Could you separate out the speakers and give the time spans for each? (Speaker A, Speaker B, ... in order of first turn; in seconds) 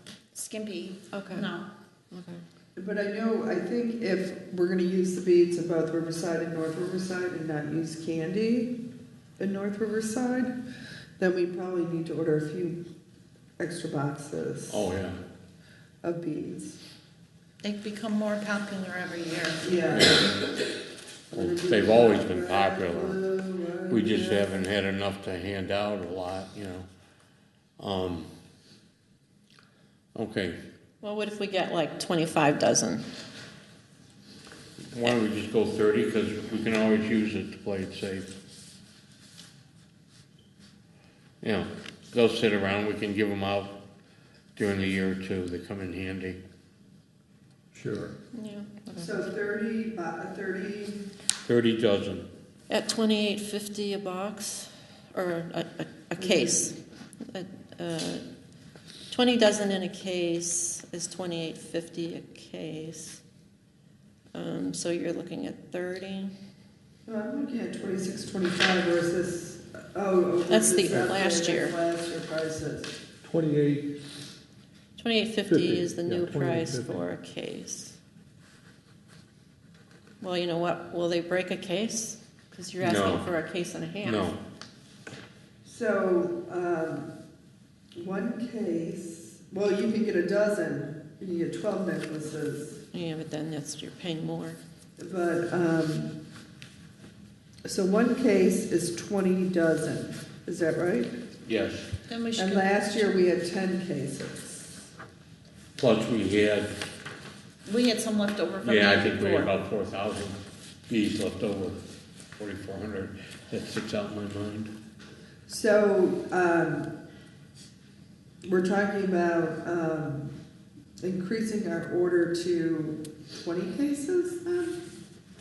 Speaker A: 0.3-1.7, 17.6-19.7, 102.1-102.7, 107.6-109.5
Speaker B: 1.1-1.5, 2.1-2.4, 31.0-33.0, 48.3-49.1, 52.7-56.8, 57.3-58.2, 59.1-63.2, 64.3-66.3, 70.5-71.8, 75.0-78.0, 80.2-84.3, 92.9-94.6
Speaker C: 2.8-8.8, 9.4-10.5, 11.2-12.8, 13.6-14.9, 16.0-16.8, 19.6-20.4, 21.3-24.7, 49.0-51.0, 56.2-56.7, 67.0-72.9, 85.6-87.1, 88.0-92.8, 95.0-96.1, 97.6-101.1, 102.3-104.7, 115.5-116.9, 118.4-120.3, 121.0-124.8
Speaker D: 14.7-15.2, 19.9-20.4, 21.3-23.2, 23.9-26.9, 27.8-28.3, 30.1-30.6, 34.9-38.2, 41.4-43.8, 44.5-46.4, 51.4-52.3, 82.8-83.3, 84.0-84.4, 101.4-101.9, 105.8-106.7, 108.6-110.4, 110.9-111.8, 112.4-114.7
Speaker E: 47.7-48.1, 73.2-74.0, 75.5-77.0